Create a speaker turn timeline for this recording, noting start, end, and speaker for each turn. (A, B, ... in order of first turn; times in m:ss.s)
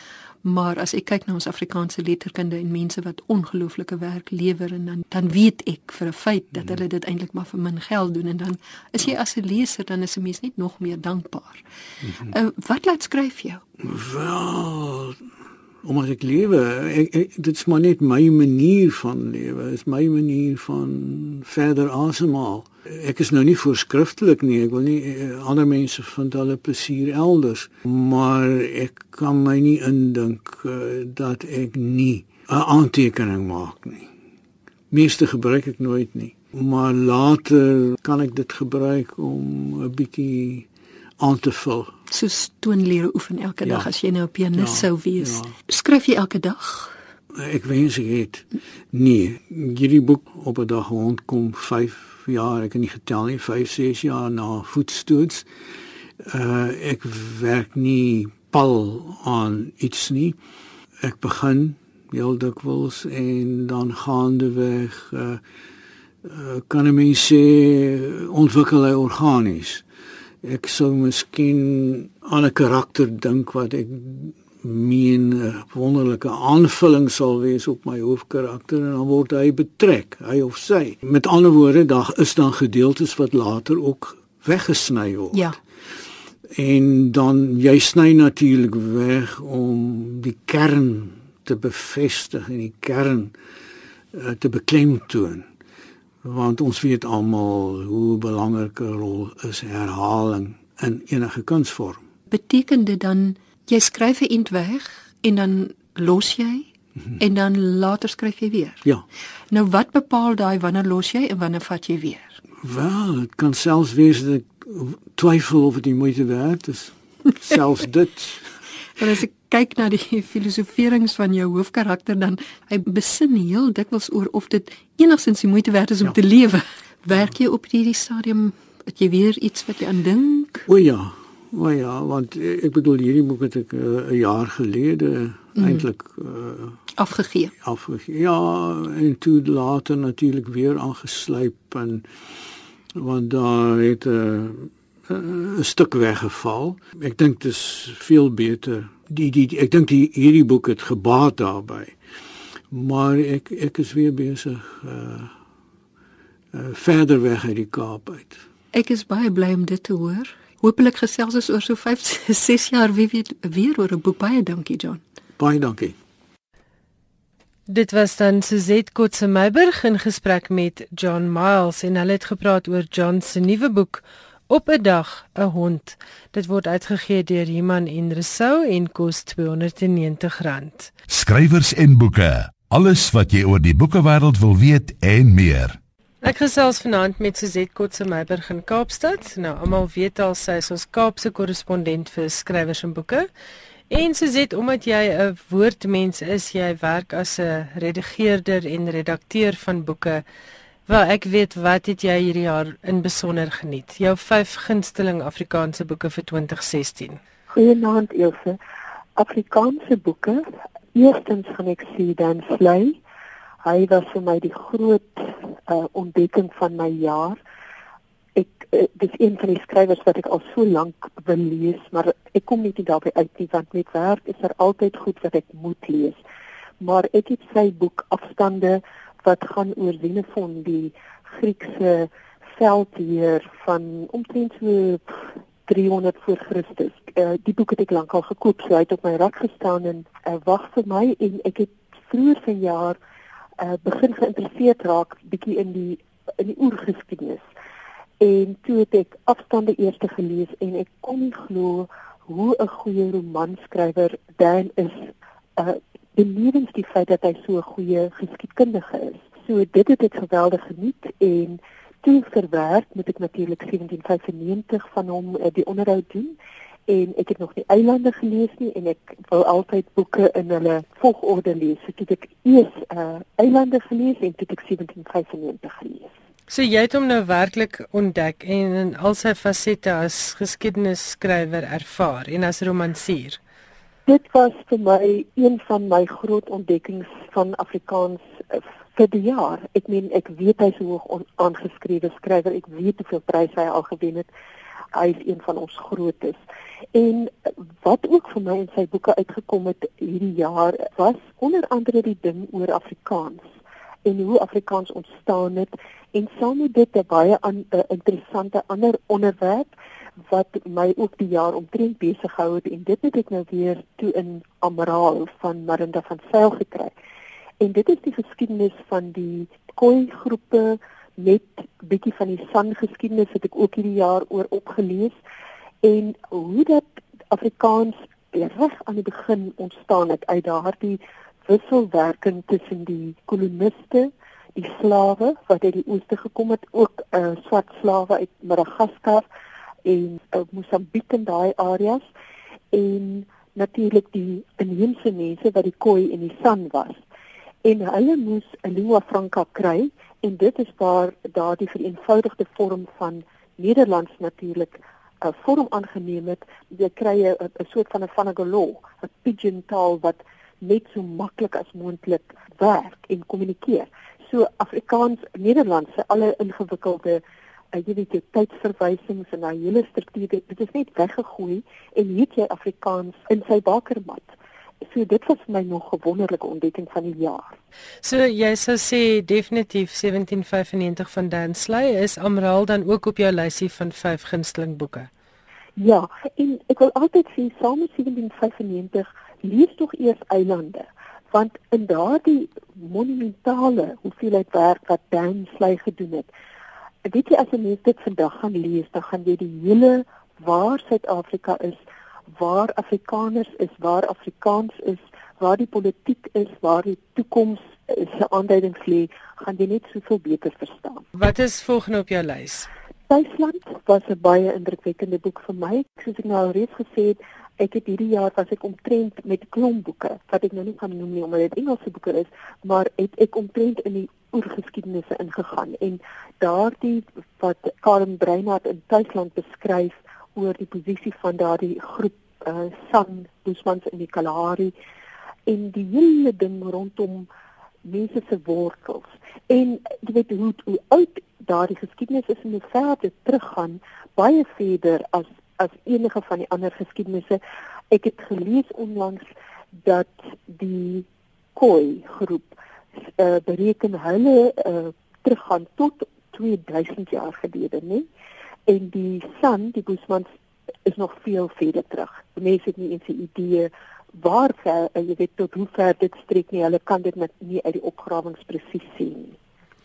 0:00.4-0:11.6 A
0:12.2-0:13.6 A
0:13.8-0:15.2 B
0:15.8-0:34.1 B
0:34.9-0:40.7 B
0:41.2-0:42.0 B
0:42.1-0:47.0 A
0:43.6-0:43.9 B
0:44.6-0:45.6 B
0:47.3-0:55.5 B
0:56.2-1:00.4 B
1:01.0-1:05.4 B
1:06.2-1:09.8 B
1:10.4-1:25.6 B
1:25.3-1:25.6 A
1:26.5-1:33.3 B
1:34.1-1:35.5 B
1:36.2-1:42.0 B
1:42.3-1:46.7 A
1:47.2-1:48.8 A
1:49.5-1:52.4 A
1:52.6-1:58.5 B
1:59.0-2:10.7 A
2:10.7-2:16.8 B
2:15.6-2:15.9 A
2:17.0-2:17.5 A
2:17.6-2:22.1 B
2:22.9-2:32.0 B
2:32.7-2:35.3 B
2:36.5-2:38.4 B
2:38.7-2:45.0 A
2:45.4-2:46.0 B
2:47.7-3:00.9 C
3:01.1-3:05.8 D
3:06.2-3:13.3 C
3:13.9-3:20.2 C
3:20.9-3:27.2 C
3:27.5-3:28.6 E
3:29.2-3:33.0 E
3:33.6-3:37.4 E
3:38.4-3:46.2 E
3:46.8-4:03.0 E
4:03.6-4:07.4 E
4:08.2-4:26.4 E
4:26.9-4:36.1 E
4:36.5-4:43.4 C
4:44.1-4:54.3 E
4:55.0-4:56.4 E
4:57.0-5:03.4 E
5:04.0-5:09.7 E
5:10.3-5:16.9 E
5:17.6-5:25.2 E
5:25.8-5:39.2 E
5:39.8-5:42.0 E
5:42.7-5:47.0 E
5:47.6-6:07.2 E
6:07.8-6:14.3 E
6:14.9-6:17.6 E
6:18.0-6:25.1 C
6:25.8-6:36.3 E
6:37.1-6:41.8 E
6:42.4-6:51.1 E
6:51.2-6:52.7 C
6:53.1-7:14.7 E
7:15.5-7:17.3 E
7:17.9-7:27.4 E
7:27.9-7:29.3 E
7:29.9-7:32.5 E
7:33.2-7:38.1 E
7:38.7-7:40.3 E
7:40.9-7:49.4 E